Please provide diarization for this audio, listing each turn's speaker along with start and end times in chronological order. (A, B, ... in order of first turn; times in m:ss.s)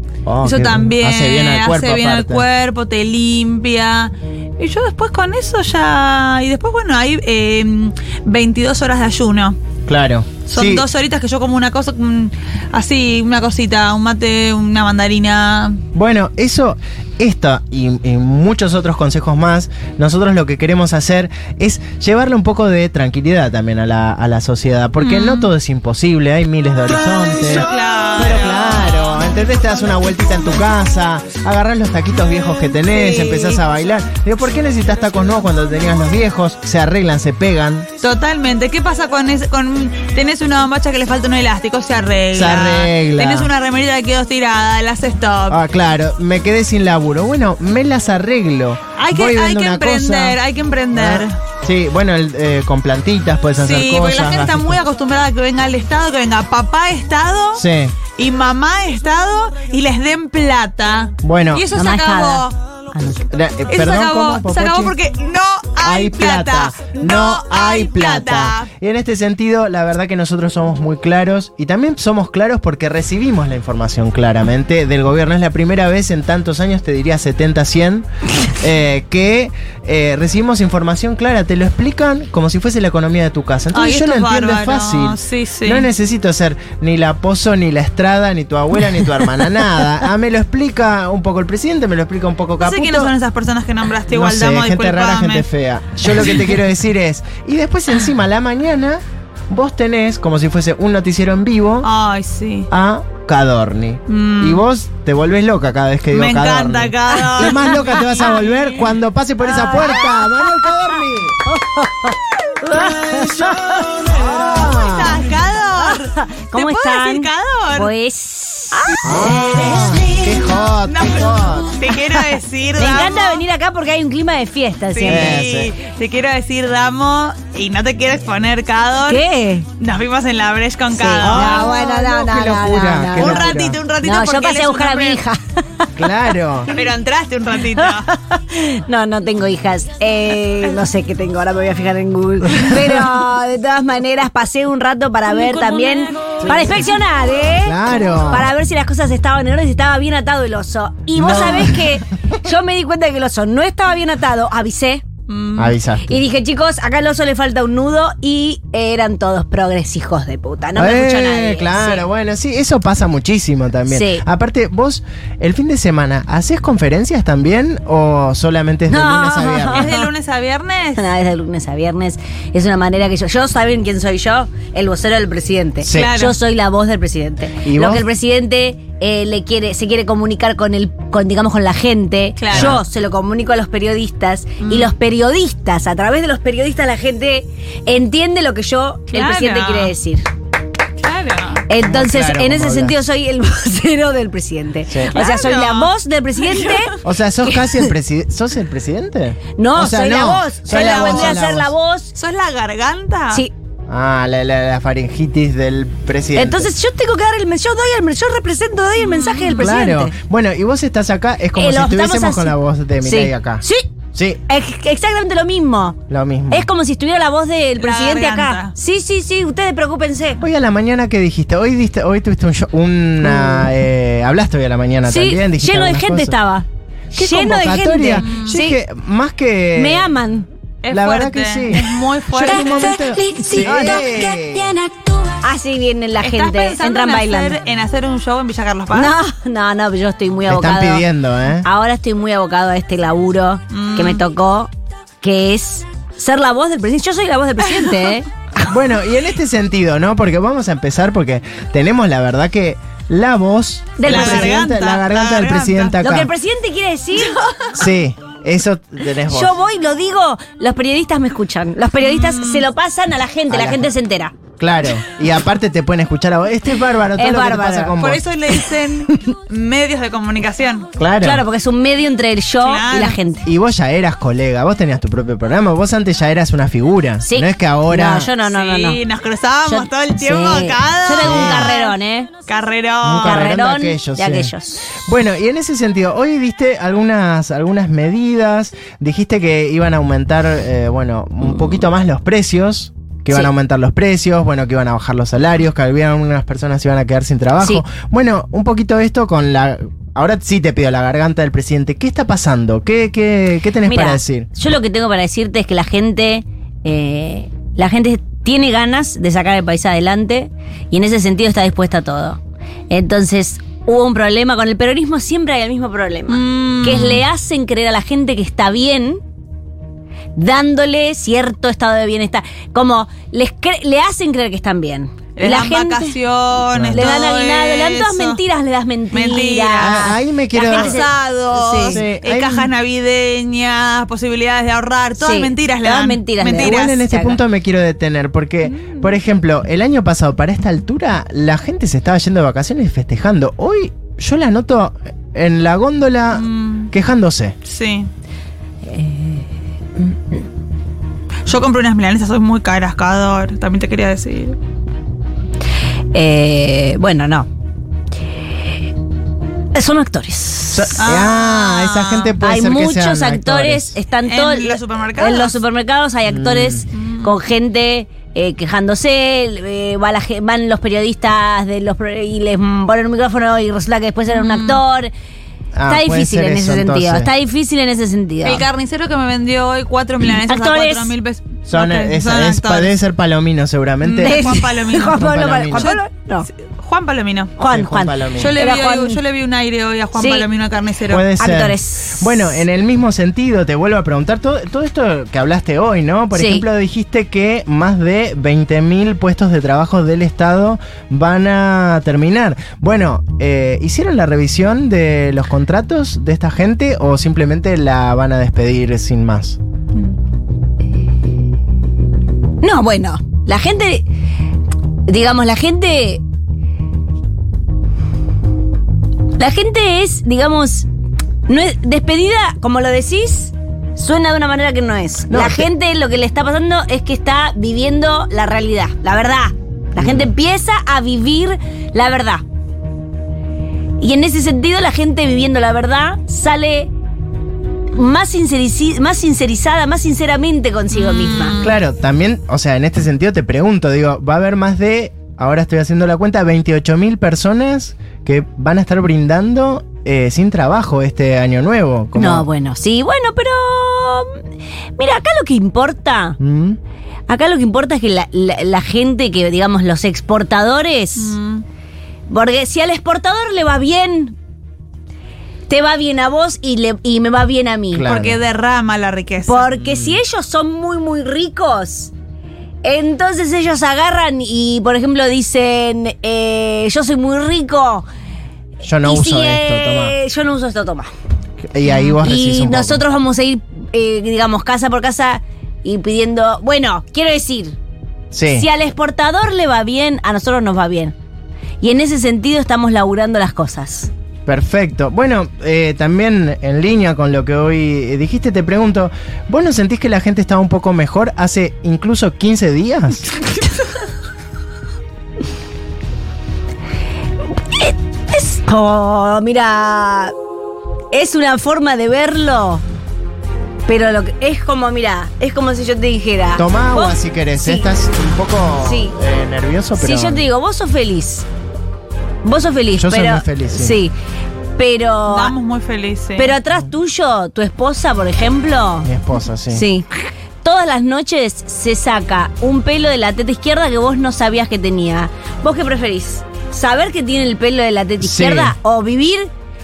0:00.2-0:02.5 A
0:00.4-0:09.6 B
0:09.9-0:10.8 A
0:10.4-0:15.8 B
0:15.9-0:37.9 A
0:25.0-0:25.5 B
0:26.9-0:29.2 B
0:32.9-0:33.6 B
0:38.0-0:45.6 B
0:42.3-0:43.5 A
0:45.5-0:50.4 A
0:49.0-0:51.4 B
0:50.9-0:54.8 A
0:53.6-0:57.6 B
0:57.5-0:58.0 A
0:58.1-1:02.6 B
1:01.2-1:01.6 A
1:01.7-1:03.3 C
1:03.3-1:04.9 A
1:03.7-1:08.7 B
1:05.8-1:33.1 A
1:23.7-1:25.9 B
1:32.6-1:35.4 B
1:34.1-1:41.9 A
1:41.8-1:42.7 B
1:42.7-1:51.4 A
1:44.1-1:44.6 B
1:46.1-1:48.8 B
1:47.1-1:48.2 C
1:49.8-1:50.0 B
1:49.9-1:50.7 C
1:51.5-1:54.3 C
1:52.8-1:57.9 B
1:54.1-1:55.2 A
1:56.2-2:00.2 C
1:59.0-2:01.8 A
2:00.9-2:03.4 B
2:02.8-2:05.4 C
2:04.9-2:09.2 B
2:05.1-2:05.7 A
2:09.0-2:09.7 C
2:09.8-2:11.8 B
2:10.9-2:16.0 C
2:11.2-2:13.8 A
2:13.1-2:15.2 B
2:16.0-2:16.7 A
2:16.7-2:18.1 B
2:17.8-2:35.0 C
2:25.2-2:26.8 B
2:26.4-2:26.8 A
2:27.6-2:28.5 A
2:31.2-2:32.0 A
2:35.3-2:35.8 B
2:35.6-2:36.2 A
2:36.1-2:42.0 C
2:40.7-2:50.0 A
2:43.9-2:44.2 C
2:48.9-2:50.0 C
2:49.7-2:51.0 B
2:50.9-3:10.3 C
2:55.8-2:56.2 A
2:55.9-2:56.4 B
2:57.6-2:58.0 A
3:02.4-3:02.8 B
3:02.5-3:02.8 A
3:04.6-3:04.9 B
3:09.1-3:09.9 B
3:11.0-3:11.6 B
3:11.7-3:16.9 C
3:11.8-3:13.0 A
3:14.9-3:15.1 A
3:15.1-3:16.9 B
3:17.0-3:21.7 A
3:17.5-3:17.9 C
3:19.6-3:22.1 C
3:20.7-3:21.4 B
3:22.1-3:23.4 B
3:23.9-3:26.7 A
3:26.3-3:30.1 C
3:29.0-3:29.7 B
3:29.6-3:34.4 A
3:31.5-3:33.9 C
3:34.5-3:36.0 C
3:36.1-3:36.7 A
3:36.5-3:40.4 C
3:37.8-3:38.7 B
3:40.4-3:46.4 A
3:43.2-3:43.7 C
3:45.0-3:48.8 C
3:47.1-3:50.2 A
3:48.2-3:48.6 B
3:49.7-3:50.5 C
3:50.8-3:53.0 B
3:50.9-3:54.7 A
3:52.4-3:57.6 C
3:56.2-3:59.1 B
3:58.9-4:01.0 C
4:00.5-4:01.6 A
4:01.6-4:04.7 C
4:03.7-4:04.2 B
4:05.2-4:08.3 C
4:08.6-4:16.3 A
4:14.0-4:14.6 C
4:14.0-4:16.0 B
4:16.0-4:17.4 C
4:17.2-4:17.6 B
4:17.7-4:19.5 A
4:19.3-4:24.3 C
4:22.0-4:22.7 B
4:23.5-4:23.9 A
4:24.6-4:28.2 A
4:27.2-4:28.7 C
4:28.0-4:30.9 B
4:31.0-4:31.4 A
4:31.2-4:33.4 C
4:32.6-4:33.2 B
4:33.4-4:38.3 A
4:37.2-4:39.0 C
4:38.4-4:42.0 B
4:39.7-4:42.3 C
4:41.2-4:41.7 A
4:42.5-4:43.5 B
4:43.0-5:04.5 A
4:43.2-4:45.0 C
4:51.4-4:51.9 C
5:03.8-5:19.2 C
5:16.3-5:17.2 B
5:20.3-5:26.2 C
5:25.4-5:28.4 B
5:26.7-5:27.1 A
5:26.9-5:32.0 C
5:29.1-5:37.2 B
5:29.8-5:31.0 A
5:31.8-5:32.7 A
5:35.2-5:37.4 C
5:36.6-5:47.5 A
5:38.7-5:39.1 B
5:46.3-5:46.9 B
5:47.6-5:48.1 B
5:48.8-5:49.5 C
5:51.4-5:54.6 B
5:56.1-5:57.5 C
5:59.7-6:01.0 C
6:00.7-6:04.0 A
6:01.0-6:02.4 B
6:02.4-6:15.1 C
6:04.2-6:05.6 B
6:06.2-6:06.8 A
6:06.9-6:07.4 B
6:14.3-6:14.8 B
6:15.7-6:17.3 A
6:15.9-6:18.6 C
6:18.4-6:23.0 B
6:20.5-6:21.1 C
6:21.7-6:25.9 A
6:24.0-6:25.2 B
6:24.2-6:26.5 C
6:25.8-6:27.5 B
6:27.6-6:29.2 C
6:27.7-6:28.6 A
6:28.4-6:31.3 B
6:30.1-6:30.5 C
6:31.1-6:49.6 A
6:31.4-6:32.4 C
6:36.3-6:36.6 C
6:52.6-6:54.0 C
6:55.1-6:56.2 C
6:59.3-7:00.9 C
7:01.5-7:12.4 C
7:05.3-7:05.7 A
7:10.0-7:10.3 A
7:14.0-7:16.9 C
7:17.9-7:21.6 C
7:20.9-7:21.7 B
7:21.6-7:32.5 A
7:32.1-7:34.4 C
7:35.0-7:36.4 C
7:36.4-7:36.8 A
7:37.3-7:41.3 C
7:41.2-7:41.6 B
7:42.3-7:44.4 C
7:45.7-7:48.1 C
7:47.9-7:48.4 A
7:48.0-7:49.7 B
7:49.4-7:52.1 C
7:49.8-7:50.2 A
7:52.8-7:58.1 C
7:58.8-8:00.2 A
7:59.0-8:01.1 C
8:01.7-8:03.0 A
8:01.8-8:02.1 B
8:02.2-8:07.8 C
8:08.3-8:08.7 A
8:08.5-8:11.1 C
8:11.8-8:14.1 C
8:14.4-8:23.3 A
8:27.7-8:30.3 C
8:31.1-8:32.8 C
8:33.8-8:37.9 C
8:36.6-8:40.4 A
8:38.8-8:39.1 C
8:40.0-8:41.4 C
8:42.4-8:44.1 C
8:43.0-8:44.0 A
8:44.8-8:45.5 C
8:45.3-8:46.5 B
8:46.4-8:49.1 C
8:49.0-8:49.8 A
8:49.7-8:50.1 C
8:50.6-8:59.5 C
8:58.2-8:58.7 A